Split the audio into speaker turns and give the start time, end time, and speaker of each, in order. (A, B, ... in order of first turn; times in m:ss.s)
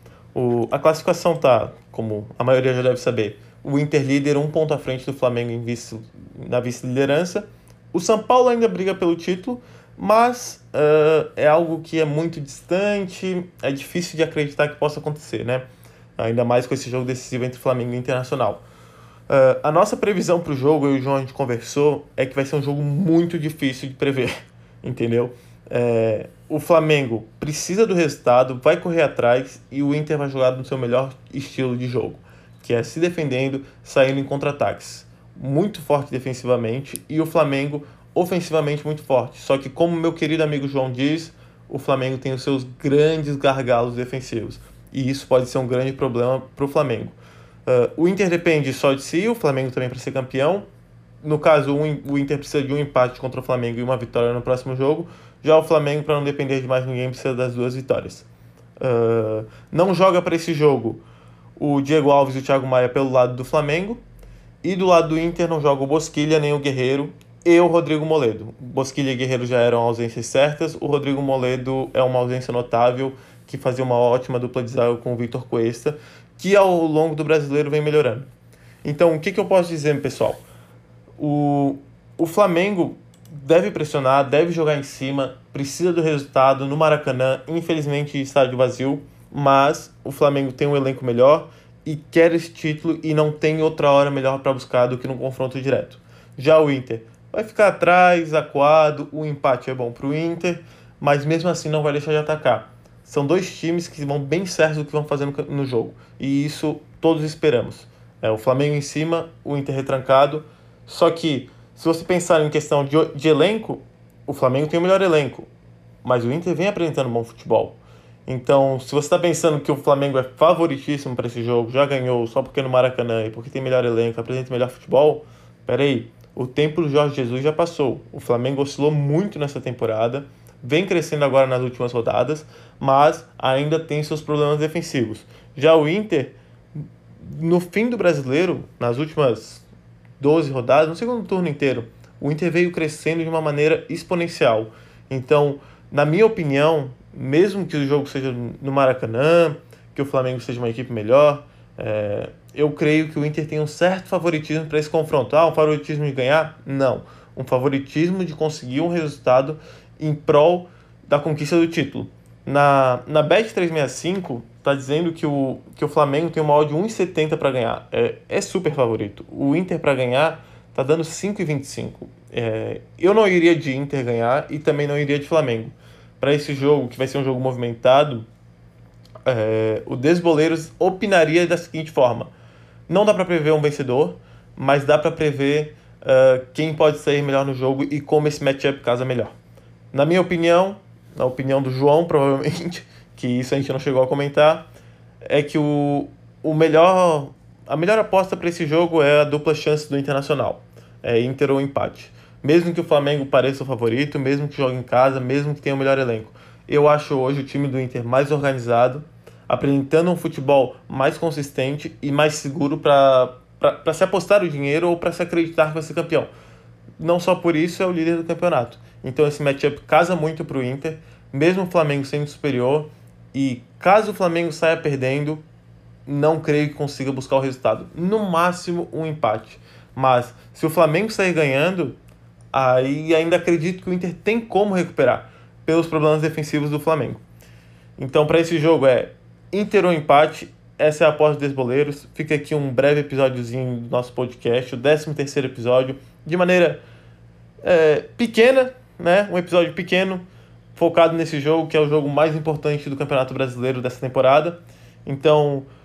0:00.3-0:15.6 A
0:16.2-0:18.6 A
0:19.3-0:50.7 A
0:51.2-0:58.3 A
0:58.8-1:01.0 A
1:01.6-1:04.0 A
1:04.6-1:18.3 A
1:18.8-1:20.4 A
1:21.2-1:55.5 A
1:56.0-2:16.4 A
2:17.2-2:19.7 A
2:20.2-2:58.3 A
2:59.2-3:02.3 A
3:02.9-3:09.3 A
3:09.9-3:14.7 A
3:15.2-3:36.3 A
3:37.0-3:45.4 A
3:46.1-3:52.0 A
3:52.5-3:57.2 A
3:58.0-4:06.8 A
4:07.6-4:10.2 A
4:10.8-4:15.7 A